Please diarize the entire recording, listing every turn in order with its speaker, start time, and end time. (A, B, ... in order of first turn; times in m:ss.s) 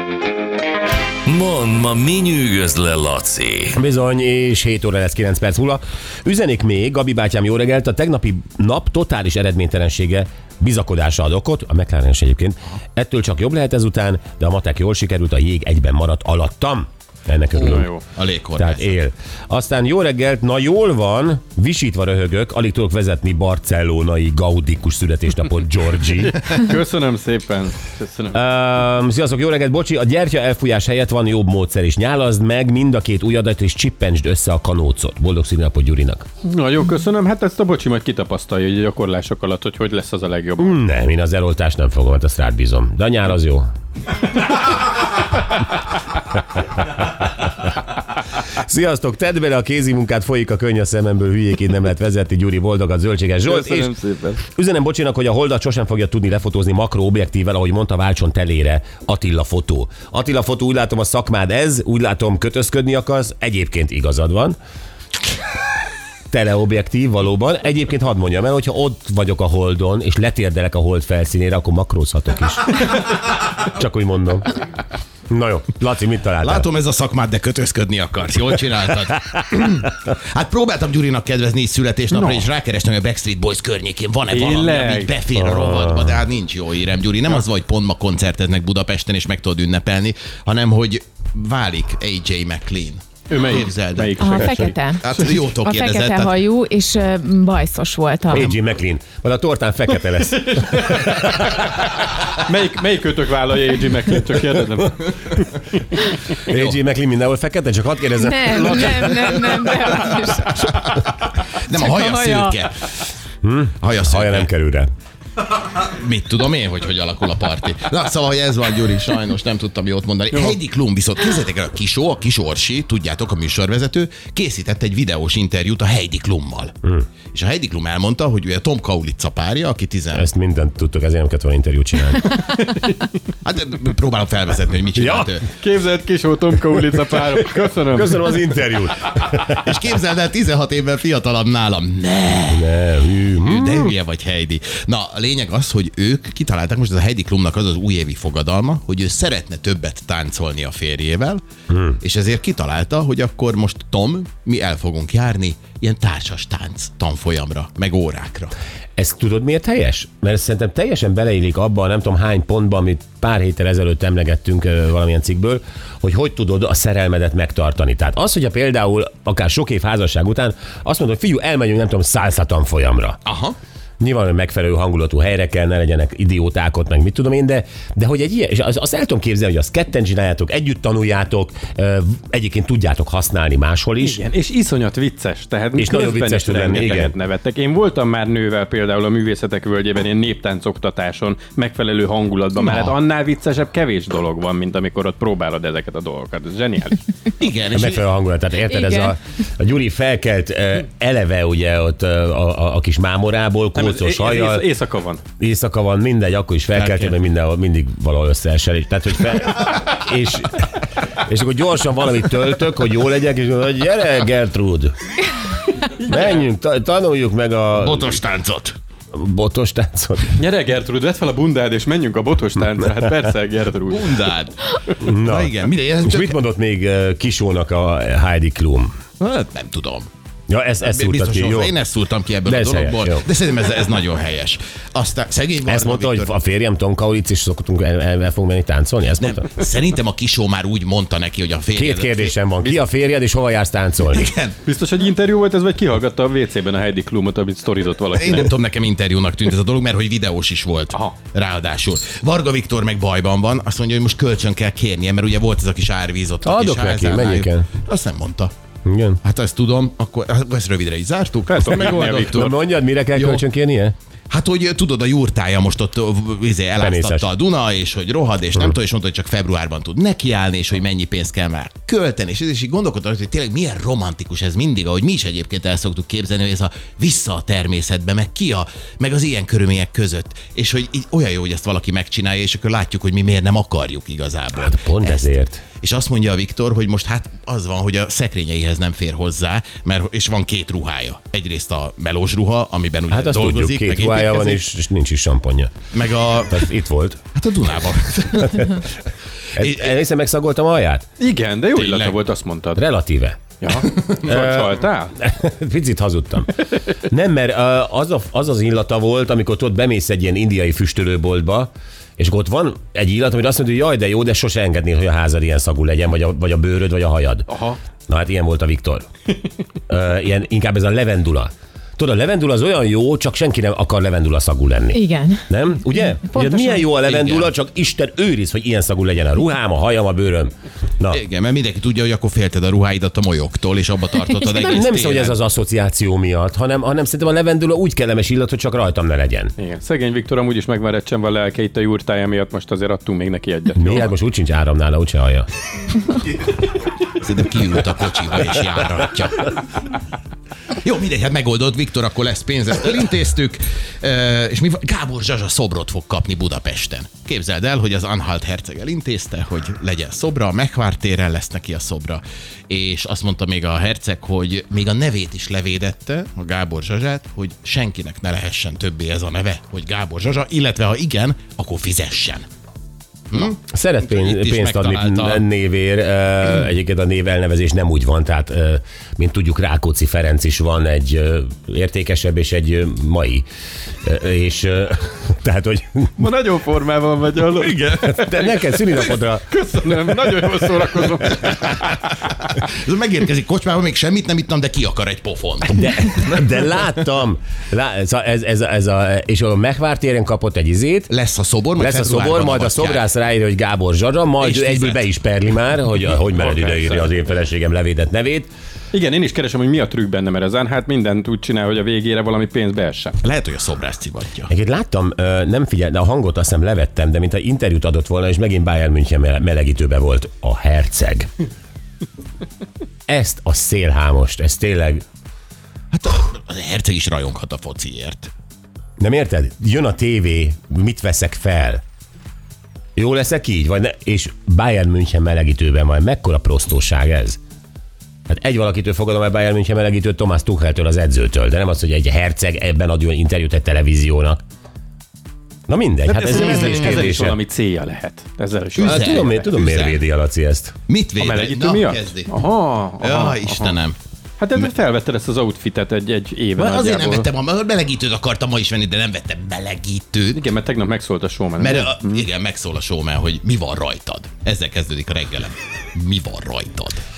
0:01.3-0:03.8 A
0:03.7-0:17.9 B
0:17.6-0:18.0 C
0:18.1-0:19.0 D
0:18.6-0:26.4 B
0:26.4-0:28.4 C
0:28.3-0:36.2 B
0:36.4-0:40.8 C
0:40.6-0:43.6 B
0:46.8-0:47.5 B
0:48.5-0:53.9 B
0:53.4-0:54.4 C
0:54.4-1:04.6 B
1:06.3-1:13.0 B
1:13.6-1:14.5 B
1:15.3-1:16.7 B
1:16.4-1:36.4 D
1:22.1-1:22.4 C
1:24.3-1:25.1 C
1:25.4-1:26.2 B
1:33.3-1:35.2 C
1:34.2-1:38.5 E
1:38.3-1:41.6 B
1:40.4-1:45.5 C
1:46.5-1:49.2 B
1:48.2-1:52.6 E
1:51.5-1:52.9 D
1:53.4-1:54.9 B
1:53.8-1:54.5 D
1:55.8-2:06.8 D
2:07.3-2:10.3 D
2:10.1-2:12.4 B
2:12.6-2:12.8 C
2:13.4-2:15.5 D
2:15.0-2:15.3 B
2:15.5-2:18.4 C
2:17.9-2:19.6 B
2:19.6-2:22.7 D
2:22.5-2:23.9 B
2:23.4-2:31.4 D
2:31.7-2:32.0 B
2:32.0-2:38.5 D
2:39.0-2:53.2 B
2:53.2-2:53.6 D
2:54.0-3:04.2 B
3:04.0-3:17.1 C
3:05.8-3:07.2 B
3:17.4-3:18.1 D
3:17.7-3:24.7 B
3:18.7-3:19.1 E
3:23.8-3:25.2 C
3:25.4-3:35.0 B
3:26.8-3:27.2 D
3:36.0-3:38.2 B
3:37.8-3:38.8 D
3:39.1-3:40.3 B
3:40.4-3:44.2 C
3:43.9-3:46.4 D
3:45.0-3:48.9 B
3:49.2-3:50.1 D
3:50.5-3:51.8 B
3:50.8-3:56.3 D
3:52.4-3:53.2 B
3:55.7-3:59.5 B
3:59.2-4:02.8 D
4:01.7-4:04.3 B
4:04.1-4:04.6 D
4:04.6-4:08.5 C
4:08.1-4:18.5 D
4:16.4-4:17.7 B
4:18.8-4:19.2 B
4:19.2-4:22.5 D
4:21.5-4:22.5 C
4:22.2-4:24.0 B
4:23.1-4:23.4 D
4:24.3-4:54.6 D
4:26.8-4:27.3 B
4:44.6-4:45.6 B
4:53.1-4:55.9 B
4:55.9-4:56.7 D
4:56.5-4:57.2 B
4:57.4-4:58.8 D
4:58.5-4:58.8 B
4:59.6-5:01.0 B
5:01.2-5:02.8 C
5:01.7-5:02.2 D
5:02.8-5:03.4 B
5:03.6-5:05.2 C
5:04.3-5:17.5 B
5:17.5-5:17.8 C
5:18.1-5:19.1 B
5:19.9-5:31.2 B
5:24.9-5:25.5 E
5:26.2-5:26.8 E
5:27.0-5:27.5 D
5:31.1-5:35.4 D
5:34.6-5:39.5 B
5:39.6-5:44.1 C
5:43.8-5:45.5 B
5:47.2-5:49.5 D
5:50.8-6:12.5 D
6:13.3-6:15.4 D
6:13.5-6:23.5 B
6:24.0-6:26.1 B
6:26.2-6:32.0 C
6:27.5-6:28.1 D
6:28.0-6:29.4 B
6:32.4-6:36.5 D
6:35.8-6:41.1 B
6:41.1-6:43.1 D
6:41.8-6:48.5 B
6:44.4-6:45.1 D
6:46.3-6:47.1 C
6:48.9-6:53.2 C
6:53.2-6:54.5 D
6:54.5-7:01.3 B
7:03.1-7:05.0 B
7:05.9-7:08.3 D
7:09.0-7:11.8 B
7:13.0-7:17.4 B
7:18.3-7:24.4 B
7:25.7-7:27.4 B
7:26.1-7:29.3 C
7:26.2-7:27.1 D
7:28.8-7:30.0 D
7:28.8-7:30.7 B
7:30.9-7:32.3 D
7:31.2-7:33.8 C
7:33.0-7:34.0 D
7:34.4-7:37.3 C
7:36.6-7:40.5 D
7:40.3-7:42.2 C
7:41.6-7:47.0 D